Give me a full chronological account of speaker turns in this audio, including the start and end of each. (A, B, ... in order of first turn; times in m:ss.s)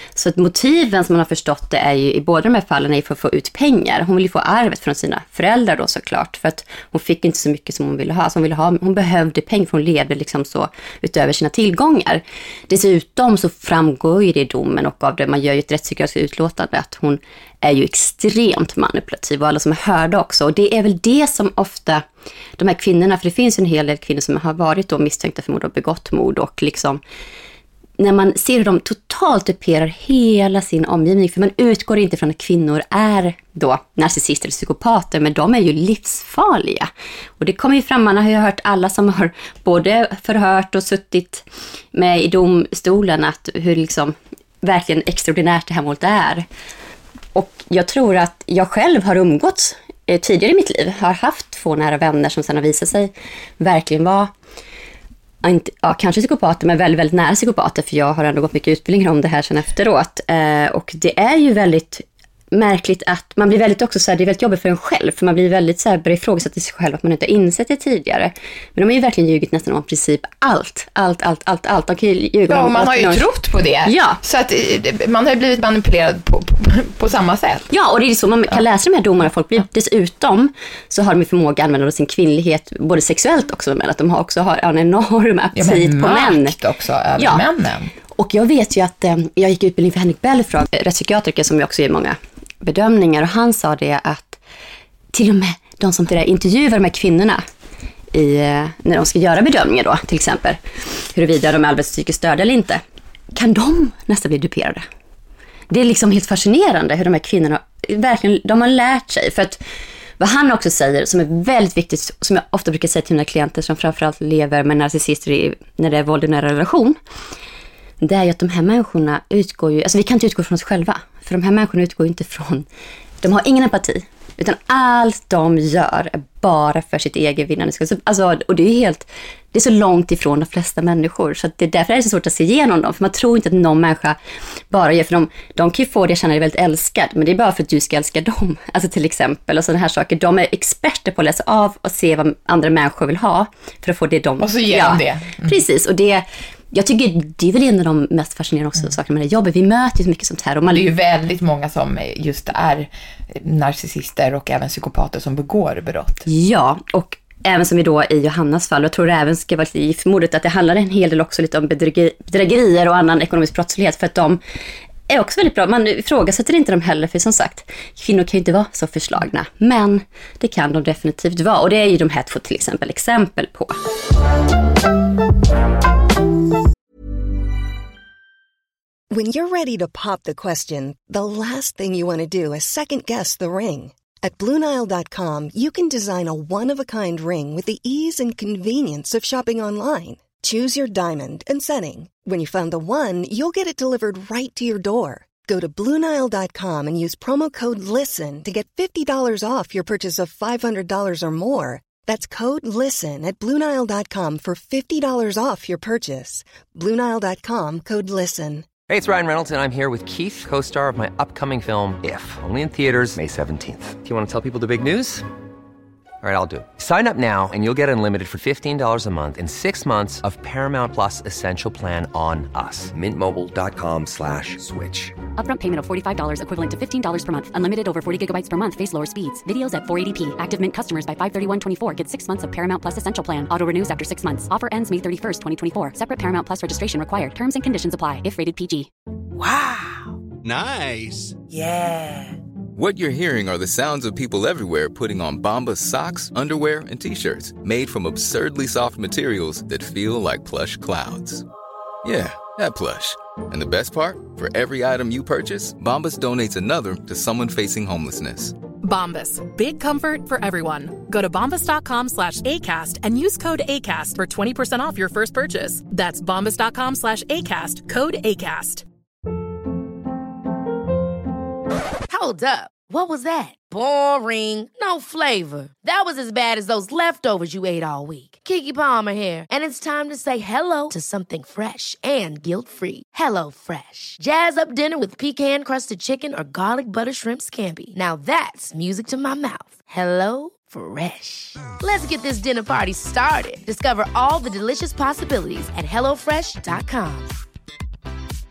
0:00.2-0:22.0 A
0:22.6-0:27.0 A
0:28.0-0:36.9 A
0:37.4-0:46.4 A
0:47.3-0:54.3 A
0:55.4-1:13.2 A
1:12.5-1:17.7 B
1:13.8-1:14.2 A
1:17.7-1:26.5 A
1:25.6-1:27.9 B
1:28.1-1:34.4 A
1:35.1-1:37.4 A
1:38.1-1:42.8 A
1:43.3-1:44.8 A
1:45.7-1:49.6 A
1:50.2-1:57.0 A
1:58.0-2:02.6 A
2:03.2-2:14.2 A
2:14.7-2:30.8 A
2:24.4-2:25.6 B
2:30.7-2:36.3 B
2:36.3-2:44.4 A
2:45.1-2:53.8 A
2:59.1-3:28.7 C
3:28.9-3:35.2 D
3:36.2-3:45.2 D
3:45.3-3:58.9 E
4:00.4-4:01.4 F
4:02.7-4:11.4 F
4:12.0-4:18.6 F
4:18.8-4:28.8 G
4:32.1-4:57.3 H